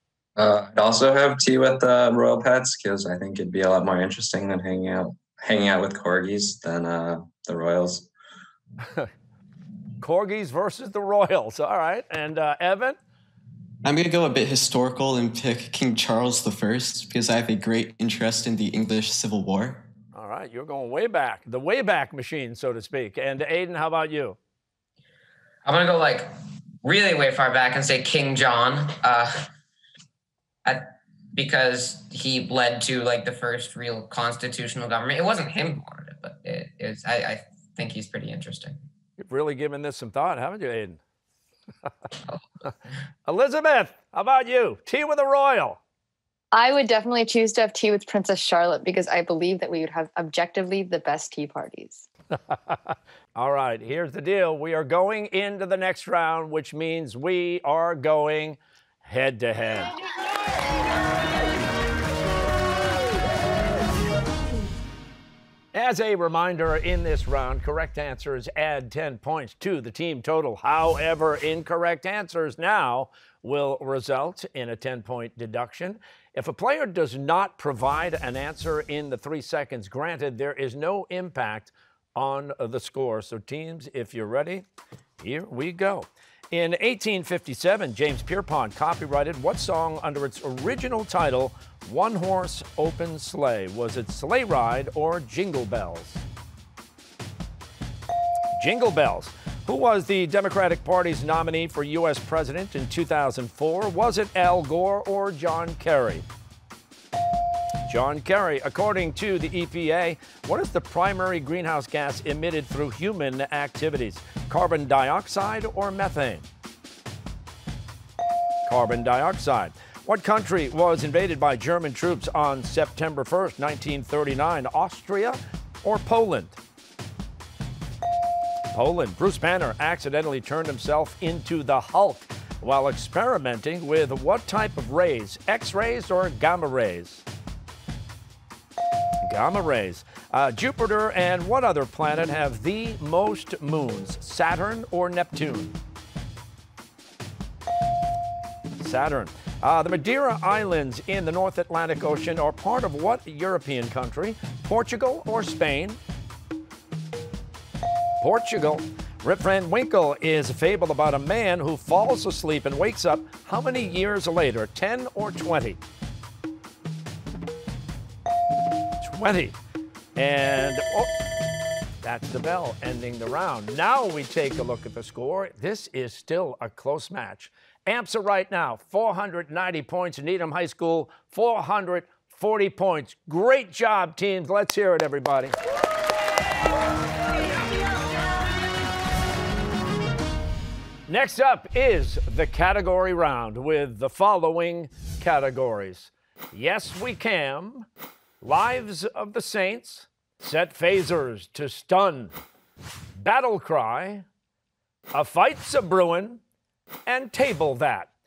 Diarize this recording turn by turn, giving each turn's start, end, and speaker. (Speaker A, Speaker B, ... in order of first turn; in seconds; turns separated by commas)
Speaker A: 0.4-8.1, Speaker B: 10.0-13.0, Speaker C: 13.8-19.9, Speaker B: 20.1-24.4, Speaker D: 25.6-29.5, Speaker D: 30.6-38.8, Speaker B: 39.2-41.0, Speaker B: 43.3-45.8, Speaker E: 46.5-52.1, Speaker B: 53.4-59.9, Speaker B: 65.7-84.7, Speaker B: 85.2-96.2, Speaker B: 98.5-106.2, Speaker B: 107.9-116.5, Speaker B: 118.7-126.6, Speaker B: 128.7-137.2, Speaker B: 139.2-145.8, Speaker B: 148.8-156.0, Speaker B: 158.2-165.8, Speaker B: 169.0-169.6, Speaker B: 170.2-171.1, Speaker B: 172.0-185.5, Speaker B: 191.1-197.9, Speaker B: 198.4-202.4, Speaker B: 203.2-204.2, Speaker B: 205.1-206.4, Speaker B: 207.1-208.1